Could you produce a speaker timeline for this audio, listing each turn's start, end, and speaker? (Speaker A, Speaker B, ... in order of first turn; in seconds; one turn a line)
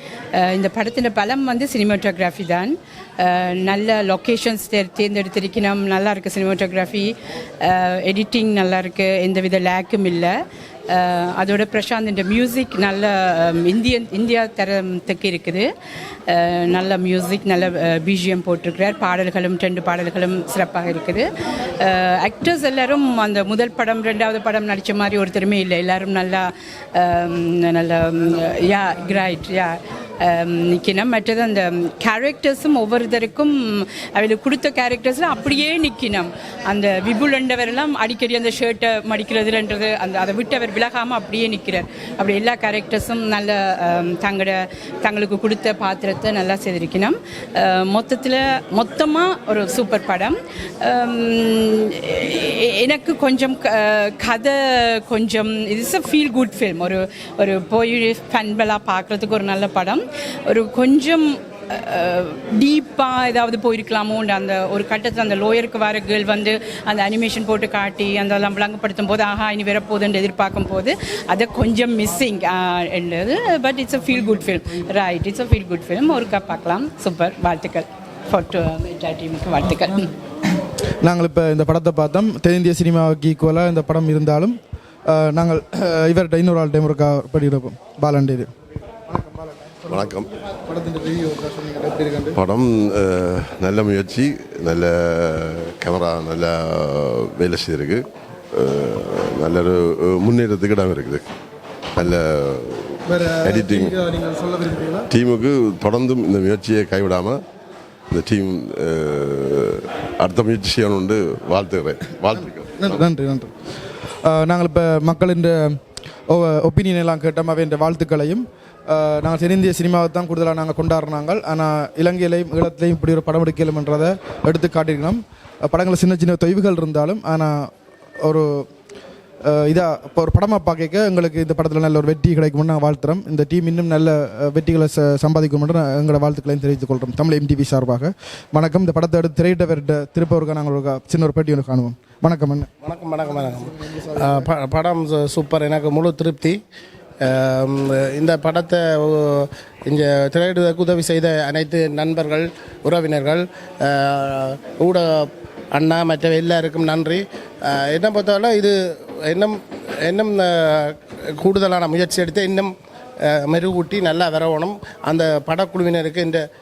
Speaker A: 0.3-10.3
Speaker A: 10.9-15.7
Speaker A: 16.3-80.1
Speaker B: 81.0-84.5
Speaker B: 85.1-88.5
Speaker B: 89.1-92.4
Speaker C: 89.9-90.3
Speaker C: 92.3-98.0
Speaker C: 98.5-101.2
Speaker C: 102.0-104.0
Speaker B: 103.1-105.1
Speaker C: 105.1-107.4
Speaker C: 108.1-113.0
Speaker B: 112.4-113.5
Speaker B: 114.2-127.7
Speaker B: 128.2-128.7
Speaker B: 129.4-142.7
Speaker D: 142.8-146.6
Speaker D: 147.2-162.7
Speaker D: 163.3-166.4